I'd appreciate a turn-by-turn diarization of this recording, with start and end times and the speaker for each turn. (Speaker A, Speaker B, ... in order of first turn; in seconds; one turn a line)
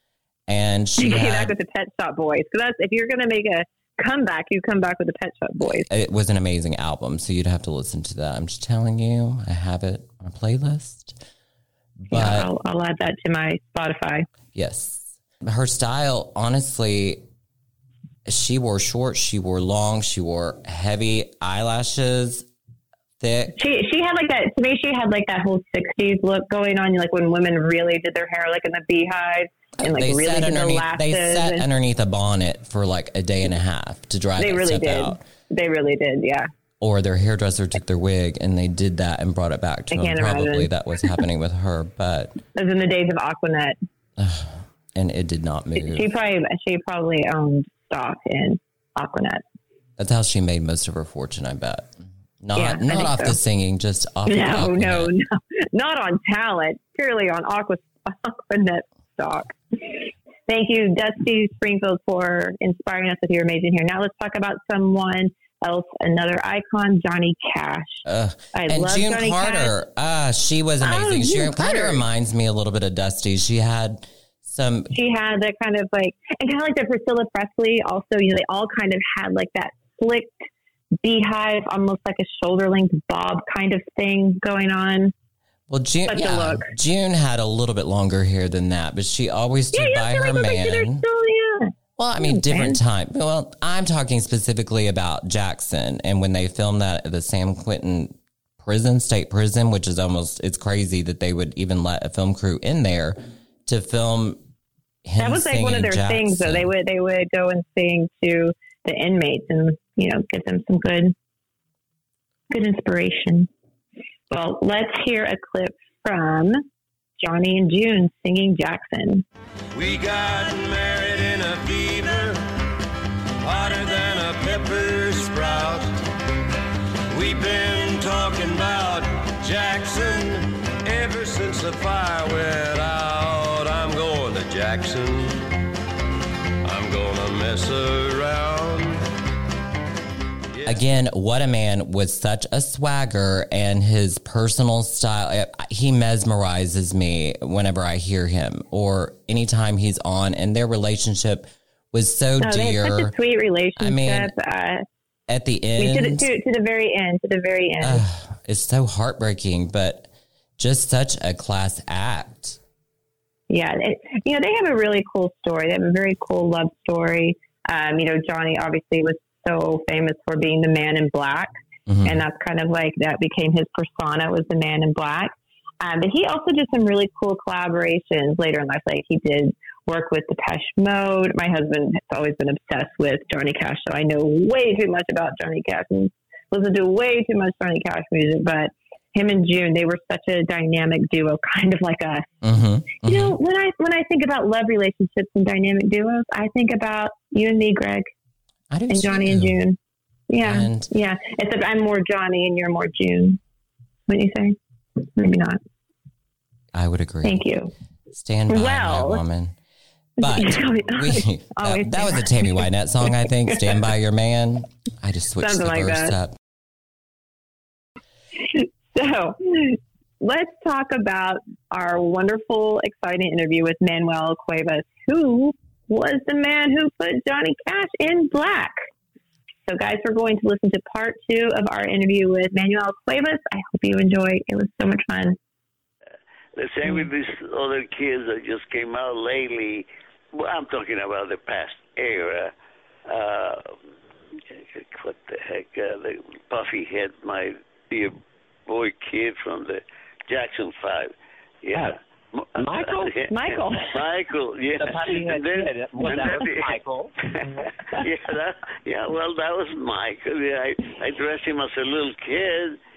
Speaker A: 0.5-1.5
Speaker B: 1.0-5.9
Speaker A: 5.9-11.2
Speaker A: 12.0-12.5
Speaker B: 12.1-14.3
Speaker A: 14.5-17.2
Speaker A: 18.3-22.5
Speaker A: 23.2-23.6
Speaker B: 23.6-31.6
Speaker A: 29.8-35.2
Speaker B: 34.4-36.5
Speaker A: 36.8-42.4
Speaker B: 39.9-40.7
Speaker B: 42.5-43.8
Speaker A: 44.2-46.1
Speaker B: 45.8-49.4
Speaker A: 50.0-55.1
Speaker B: 52.5-53.4
Speaker B: 54.3-69.7
Speaker A: 68.1-74.9
Speaker B: 70.8-72.0
Speaker B: 74.9-80.4
Speaker B: 81.0-85.1
Speaker A: 85.7-91.0
Speaker B: 86.1-86.7
Speaker B: 89.7-92.8
Speaker A: 92.0-104.4
Speaker A: 105.0-106.7
Speaker B: 105.2-111.2
Speaker B: 112.5-113.5
Speaker B: 114.3-116.7
Speaker B: 117.2-119.2
Speaker C: 119.7-122.5
Speaker C: 123.4-126.0
Speaker C: 127.1-135.5
Speaker C: 136.6-139.1
Speaker C: 140.6-140.8
Speaker A: 140.7-153.1
Speaker B: 152.4-154.8
Speaker A: 153.8-154.3
Speaker A: 155.3-156.3
Speaker B: 155.8-158.0
Speaker A: 157.8-162.6
Speaker B: 163.5-171.5
Speaker A: 171.9-172.2
Speaker B: 172.0-192.3
Speaker A: 192.4-193.4
Speaker B: 193.0-198.1
Speaker A: 198.7-199.6
Speaker B: 198.9-199.8
Speaker B: 200.3-203.4
Speaker A: 200.4-200.9
Speaker B: 204.1-204.6
Speaker B: 205.2-205.6
Speaker A: 206.7-207.5
Speaker B: 207.2-207.7
Speaker A: 208.1-209.6
Speaker B: 208.5-209.2
Speaker A: 210.2-216.4
Speaker B: 210.2-212.7
Speaker B: 215.4-216.1
Speaker B: 218.4-228.8
Speaker B: 229.7-235.4
Speaker D: 236.6-242.5
Speaker D: 243.1-243.8
Speaker D: 244.5-256.8
Speaker E: 252.6-253.3
Speaker B: 253.3-253.9
Speaker E: 254.8-257.7
Speaker D: 257.3-262.8